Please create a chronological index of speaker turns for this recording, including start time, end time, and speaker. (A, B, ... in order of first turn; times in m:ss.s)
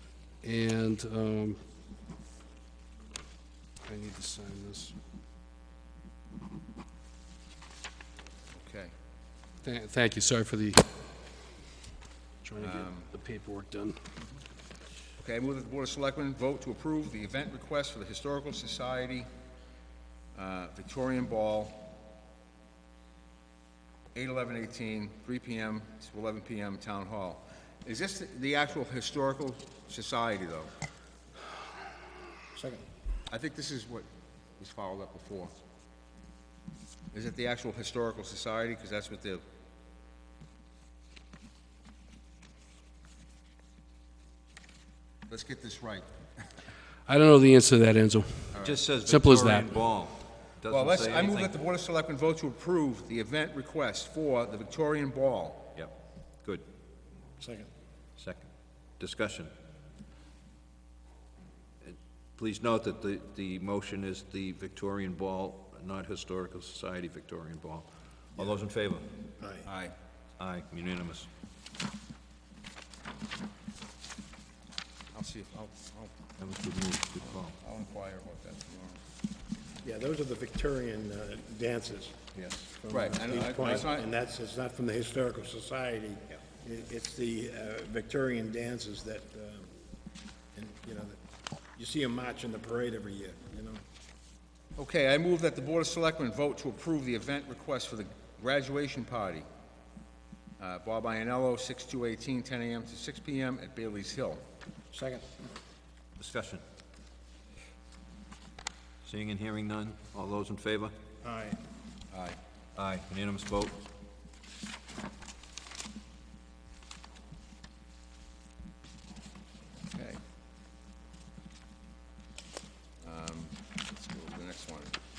0:00.4-0:01.6 A
0:03.8-0:05.0 A
0:08.6-0:08.9 B
0:09.6-0:10.8 A
0:12.4-0:14.0 A
0:12.6-0:13.1 B
0:15.2-0:19.3 B
0:20.4-0:21.9 B
0:24.1-0:30.7 B
0:32.5-0:32.9 C
0:33.3-0:34.1 B
0:34.6-0:35.5 B
0:37.1-0:39.4 B
0:45.3-0:46.1 B
0:47.1-0:48.5 A
0:48.5-0:48.8 B
0:48.6-0:51.6 D
0:49.0-0:49.7 A
0:50.7-0:55.7 B
0:55.8-0:56.6 D
0:57.4-0:57.7 C
0:58.2-0:59.5 D
1:01.8-1:09.1 D
1:09.4-1:09.7 C
1:09.6-1:10.0 B
1:10.4-1:11.3 D
1:15.1-1:16.2 B
1:16.4-1:17.6 D
1:17.2-1:19.0 B
1:19.8-1:22.2 C
1:22.4-1:22.7 D
1:22.8-1:29.7 C
1:22.9-1:24.1 B
1:30.5-1:31.2 C
1:31.8-1:33.8 C
1:34.8-1:39.5 B
1:40.6-1:44.4 B
1:44.9-1:45.3 C
1:46.2-1:46.6 D
1:49.0-1:50.9 D
1:51.2-1:51.6 C
1:52.1-1:52.4 B
1:52.8-1:53.9 D
1:59.9-2:00.2 B
2:03.0-2:05.0 B